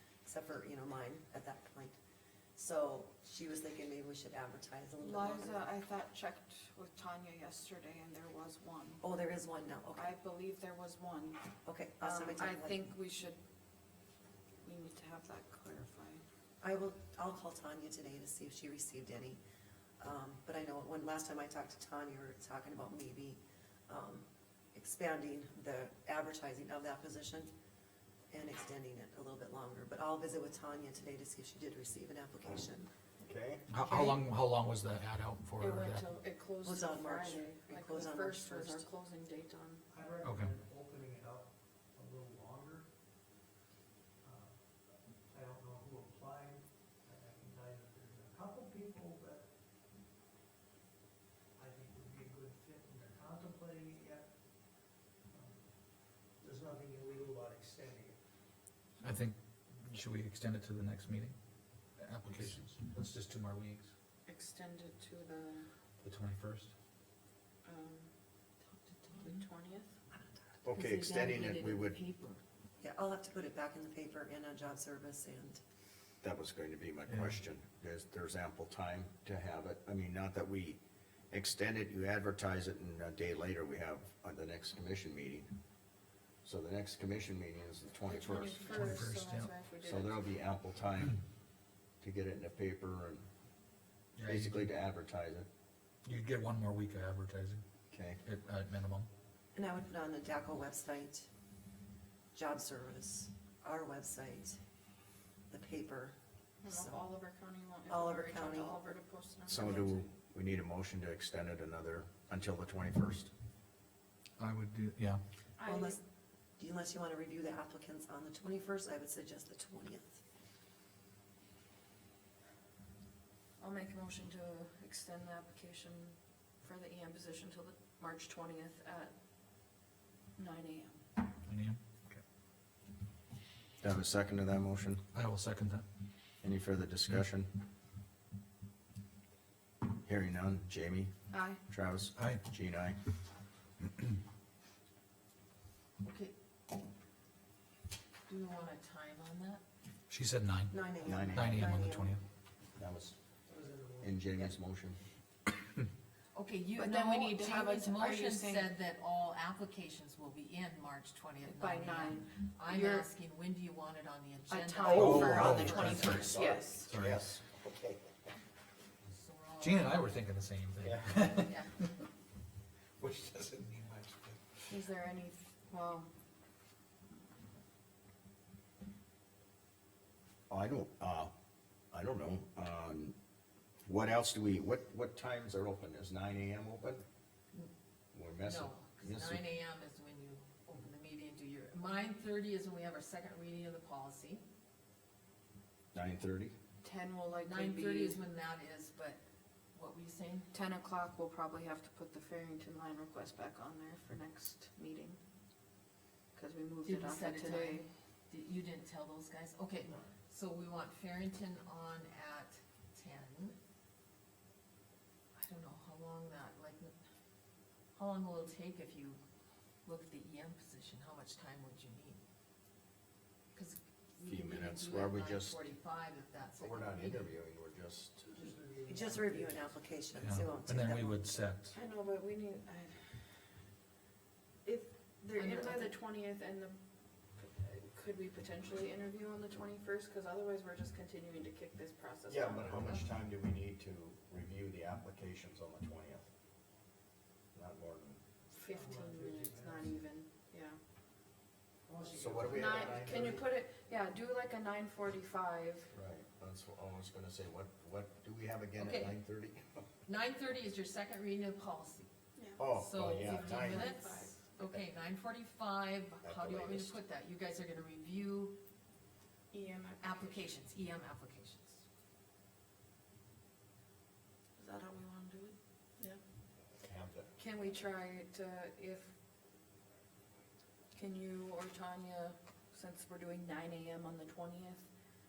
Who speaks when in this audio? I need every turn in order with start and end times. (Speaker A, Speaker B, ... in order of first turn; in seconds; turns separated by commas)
Speaker A: 0.2-1.9, Speaker A: 2.5-5.7, Speaker B: 5.0-9.0, Speaker A: 9.0-10.2, Speaker B: 9.9-13.4, Speaker A: 11.6-12.9, Speaker B: 14.6-16.2, Speaker A: 16.6-19.4, Speaker A: 20.0-27.5, Speaker A: 28.3-32.9, Speaker C: 33.2-33.7, Speaker D: 33.7-36.0, Speaker B: 35.6-39.8, Speaker A: 36.6-38.9, Speaker E: 39.9-42.9, Speaker D: 40.2-40.5, Speaker E: 44.2-44.6, Speaker E: 45.3-49.5, Speaker E: 51.5-54.3, Speaker E: 55.3-55.6, Speaker E: 56.4-58.2, Speaker D: 59.0-61.3, Speaker D: 62.0-63.9, Speaker B: 64.2-65.7, Speaker D: 66.0-66.7, Speaker B: 67.6-68.1, Speaker F: 68.8-69.4, Speaker B: 69.1-70.0, Speaker A: 70.1-70.5, Speaker C: 70.6-72.0, Speaker F: 70.7-72.4, Speaker A: 72.8-75.6, Speaker C: 76.2-85.5, Speaker D: 77.1-77.3, Speaker C: 86.4-88.9, Speaker B: 88.0-90.3, Speaker D: 88.6-89.5, Speaker C: 89.8-91.2, Speaker C: 92.0-93.2, Speaker D: 94.2-94.7, Speaker C: 94.2-95.5, Speaker D: 96.0-97.6, Speaker C: 97.9-98.2, Speaker D: 98.2-99.1, Speaker A: 99.5-101.3, Speaker A: 102.3-104.6, Speaker A: 105.5-106.1, Speaker B: 106.6-110.1, Speaker A: 106.7-107.0, Speaker A: 107.9-108.8, Speaker C: 109.5-113.3, Speaker D: 114.4-115.2, Speaker B: 115.6-116.0, Speaker A: 115.6-116.0, Speaker A: 116.6-120.2, Speaker B: 123.6-129.1, Speaker B: 130.4-131.1, Speaker D: 131.4-132.2, Speaker C: 133.8-135.0, Speaker D: 135.1-135.8, Speaker C: 136.4-137.5, Speaker C: 139.9-141.1, Speaker B: 141.3-141.6, Speaker C: 141.7-143.0, Speaker D: 142.2-142.4, Speaker F: 146.0-146.3, Speaker F: 148.2-149.6, Speaker D: 150.1-150.7, Speaker A: 150.7-152.2, Speaker C: 151.0-151.7, Speaker D: 151.3-152.2, Speaker C: 152.8-153.1, Speaker E: 153.5-154.3, Speaker C: 154.0-155.0, Speaker F: 156.3-165.5, Speaker B: 156.7-158.7, Speaker B: 161.5-163.1, Speaker B: 164.5-166.9, Speaker D: 164.8-167.4, Speaker C: 165.0-168.1, Speaker F: 169.0-170.2, Speaker D: 169.6-171.5, Speaker C: 170.8-171.1, Speaker F: 171.4-171.7, Speaker D: 173.0-174.6, Speaker B: 174.7-176.1, Speaker C: 180.5-181.3, Speaker C: 181.9-183.1, Speaker C: 183.8-187.0, Speaker C: 188.1-189.4, Speaker F: 188.4-194.4, Speaker C: 195.9-196.5, Speaker B: 196.8-198.2, Speaker F: 197.4-199.2, Speaker F: 199.7-200.5, Speaker B: 200.5-205.2, Speaker B: 206.3-207.9, Speaker F: 206.8-213.6, Speaker F: 215.3-216.9, Speaker F: 217.9-219.2, Speaker F: 219.8-222.2, Speaker F: 223.5-227.3, Speaker C: 224.2-225.7, Speaker C: 226.6-228.3, Speaker E: 228.3-229.7, Speaker A: 228.9-231.2, Speaker D: 230.2-231.7, Speaker B: 231.7-233.1, Speaker B: 234.6-236.8, Speaker F: 235.3-235.9, Speaker B: 237.4-243.0, Speaker C: 242.3-246.3, Speaker C: 247.5-248.2, Speaker B: 248.5-250.8, Speaker E: 248.7-249.9, Speaker E: 251.8-253.4, Speaker C: 252.1-253.4, Speaker B: 252.5-255.9, Speaker C: 255.9-259.8, Speaker F: 258.8-259.2, Speaker F: 260.1-262.1, Speaker B: 262.4-262.6, Speaker C: 262.6-263.8, Speaker F: 262.7-268.6, Speaker B: 263.3-264.5, Speaker C: 266.2-266.9, Speaker B: 269.5-270.6, Speaker F: 270.0-271.8, Speaker B: 274.6-276.2, Speaker C: 276.8-277.3, Speaker B: 277.4-279.1, Speaker B: 280.9-284.9